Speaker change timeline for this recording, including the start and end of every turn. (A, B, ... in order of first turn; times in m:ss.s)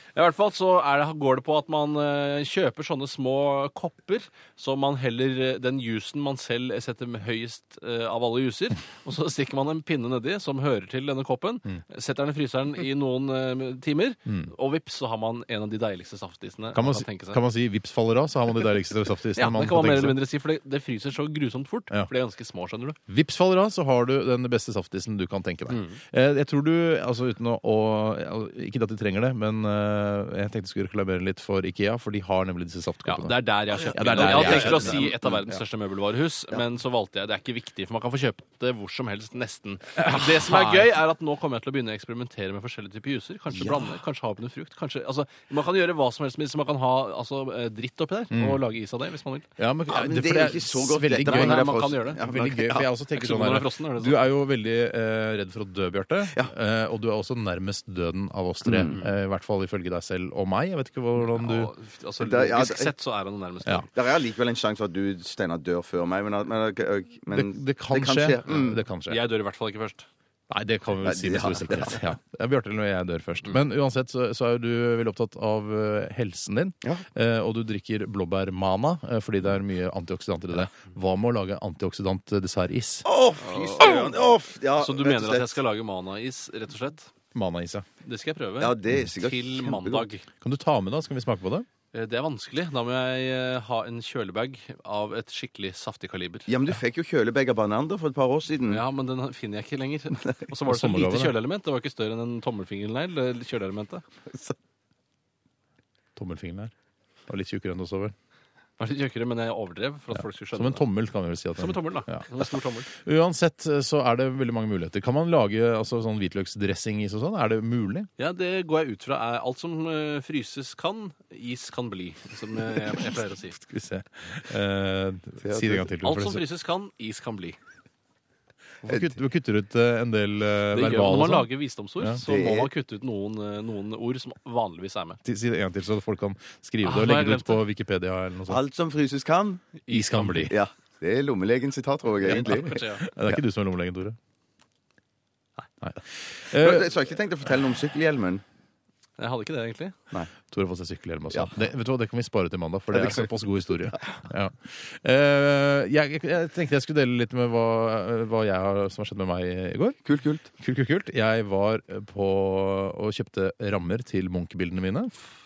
0:00.1-0:17.4 A
0:14.2-0:14.5 B
0:16.7-0:20.2 B
0:19.4-0:23.0 A
0:23.1-0:35.2 B
0:25.7-0:26.0 A
0:33.0-0:49.5 A
0:33.9-0:35.4 C
0:40.0-0:41.0 B
0:48.3-0:48.6 B
0:49.6-1:01.7 B
0:49.9-0:52.9 C
0:51.2-0:52.2 A
0:53.1-0:54.2 A
0:58.6-0:59.0 C
1:01.2-1:03.9 A
1:02.2-1:02.9 C
1:03.9-1:08.8 C
1:07.3-1:09.2 B
1:09.1-1:10.1 A
1:10.5-1:23.0 B
1:11.0-1:12.0 C
1:23.0-1:25.6 C
1:23.4-1:27.1 A
1:27.3-1:27.8 B
1:28.0-1:30.2 A
1:28.6-1:30.1 C
1:30.4-1:31.7 B
1:31.9-1:36.5 A
1:36.5-1:38.8 C
1:38.7-1:44.0 A
1:40.7-1:41.3 B
1:46.2-1:46.7 B
1:47.3-1:48.1 B
1:48.8-1:50.8 A
1:50.1-1:58.1 B
1:51.6-1:52.9 A
1:58.2-2:03.6 A
2:03.5-2:06.4 B
2:05.4-2:05.8 C
2:06.0-2:07.6 A
2:08.8-2:11.5 B
2:10.7-2:15.2 A
2:12.2-2:12.7 C
2:15.2-2:18.6 B
2:16.8-2:17.6 A
2:18.5-2:19.6 C
2:19.8-2:20.5 A
2:19.9-2:20.5 B
2:20.5-2:23.4 C
2:22.2-2:23.0 A
2:22.2-2:24.2 B
2:25.8-2:26.9 B
2:26.5-2:28.4 C
2:29.2-2:30.0 A
2:30.5-2:40.0 B
2:32.9-2:33.3 C
2:40.0-2:40.5 C
2:40.5-2:45.1 B